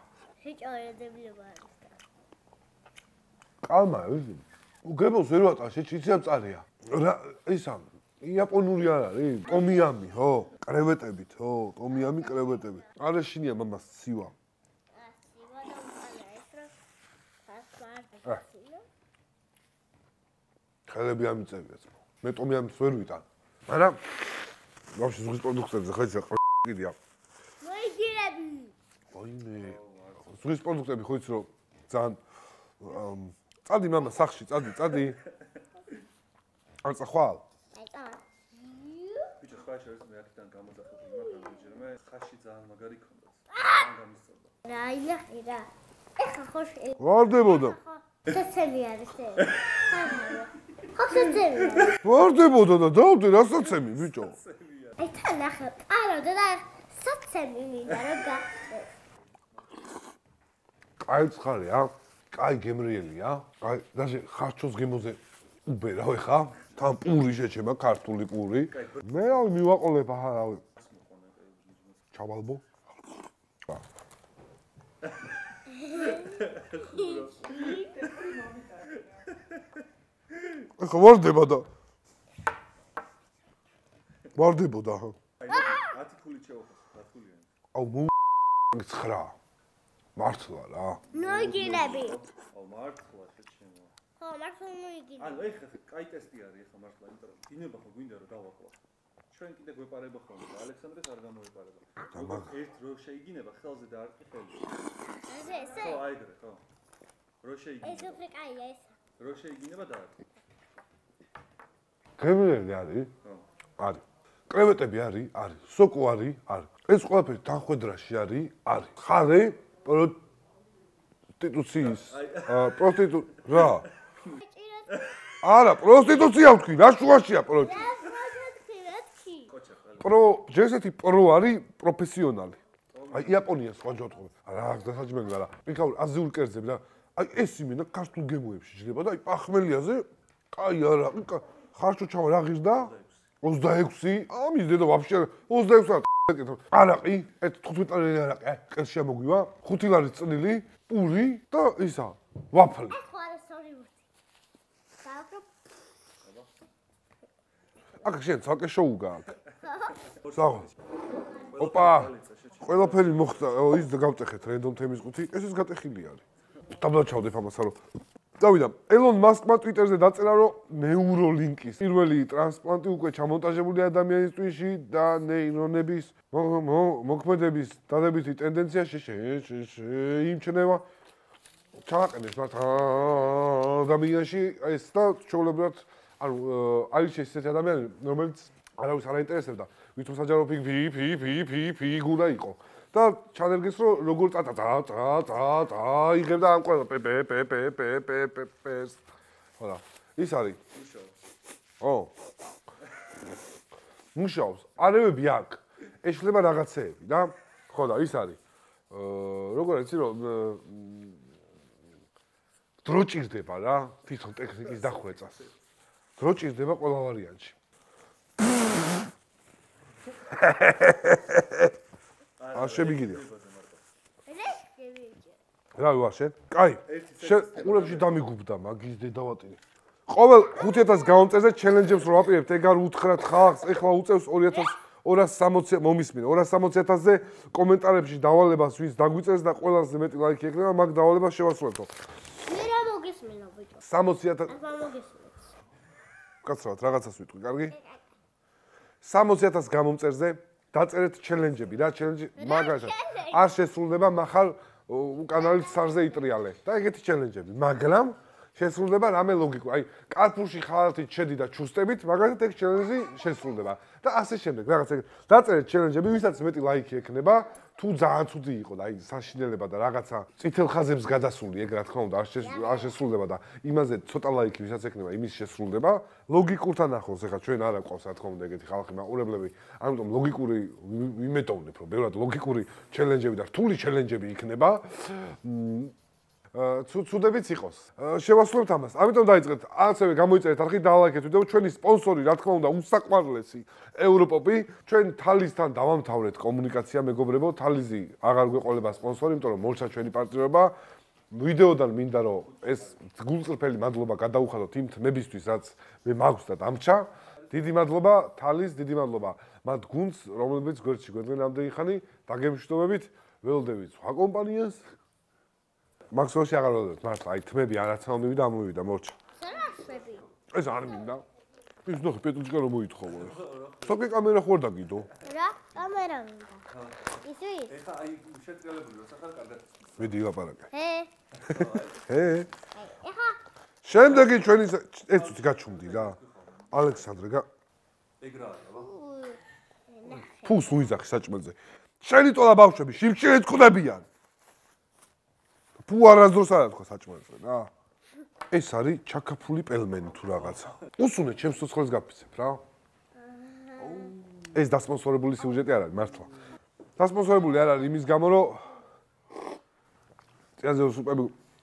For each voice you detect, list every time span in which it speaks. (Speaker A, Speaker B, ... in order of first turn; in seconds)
Speaker A: 0.4-1.9, 9.5-10.0, 11.9-12.8, 14.9-16.7, 17.4-18.9, 27.6-28.7, 37.7-39.4, 43.5-43.9, 44.6-52.0, 55.0-58.9, 75.7-78.2, 85.4-86.0, 91.1-92.2, 94.2-95.5, 105.3-106.1, 107.8-108.9, 124.4-125.0, 127.5-129.5, 152.9-154.0, 155.0-155.5, 159.6-160.0, 224.2-225.4, 242.4-243.8, 244.5-245.5, 247.7-248.1, 252.4-253.4, 272.4-272.9, 319.4-320.2, 325.2-326.6, 327.2-327.7, 330.7-331.1, 332.7-333.4, 338.8-340.8, 353.1-354.1
Speaker B: 3.6-14.3, 20.9-24.4, 24.9-26.9, 29.1-32.2, 32.8-35.2, 36.8-37.4, 47.0-47.8, 52.0-54.4, 61.0-70.6, 72.1-72.6, 80.8-81.7, 84.3-85.2, 87.7-88.1, 88.7-89.3, 90.2-91.0, 102.1-102.5, 112.2-113.1, 113.8-120.2, 121.4-123.9, 125.4-127.9, 130.0-132.6, 133.1-153.0, 158.0-159.3, 160.3-160.7, 161.6-167.8, 168.4-180.8, 181.7-199.1, 199.6-200.6, 201.8-202.1, 204.1-208.4, 208.9-211.2, 212.8-215.4, 216.2-217.6, 218.4-219.0, 220.3-221.7, 222.5-223.2, 225.8-241.9, 243.8-244.5, 246.4-247.7, 249.0-285.9, 286.5-300.8, 301.3-314.9, 316.1-319.2, 320.5-321.2, 321.8-325.1, 330.0-330.7, 331.5-332.5, 333.8-336.2, 336.7-337.5, 340.4-344.1, 345.8-347.7, 348.5-352.6, 354.5-356.3, 357.0-358.7, 360.6-361.3
Speaker C: 29.6-30.4, 39.4-44.5, 51.7-52.0, 53.5-55.0, 68.7-69.5, 70.6-72.1, 75.0-75.3, 75.8-79.7, 85.4-87.5, 91.1-93.9, 95.2-98.8, 99.3-104.7, 105.7-106.6, 107.4-108.2, 109.2-110.1, 121.8-123.8, 124.9-125.2, 129.5-130.2, 132.9-133.6, 142.7-143.1, 156.2-156.5, 160.0-160.7, 161.3-163.7, 200.7-201.1, 214.8-215.5, 222.4-223.8, 226.8-228.2, 302.5-303.0, 319.7-320.3, 323.1-324.2, 326.7-327.1, 327.7-330.1, 331.3-332.1, 333.9-334.5, 335.1-337.0, 338.2-338.9, 353.8-354.5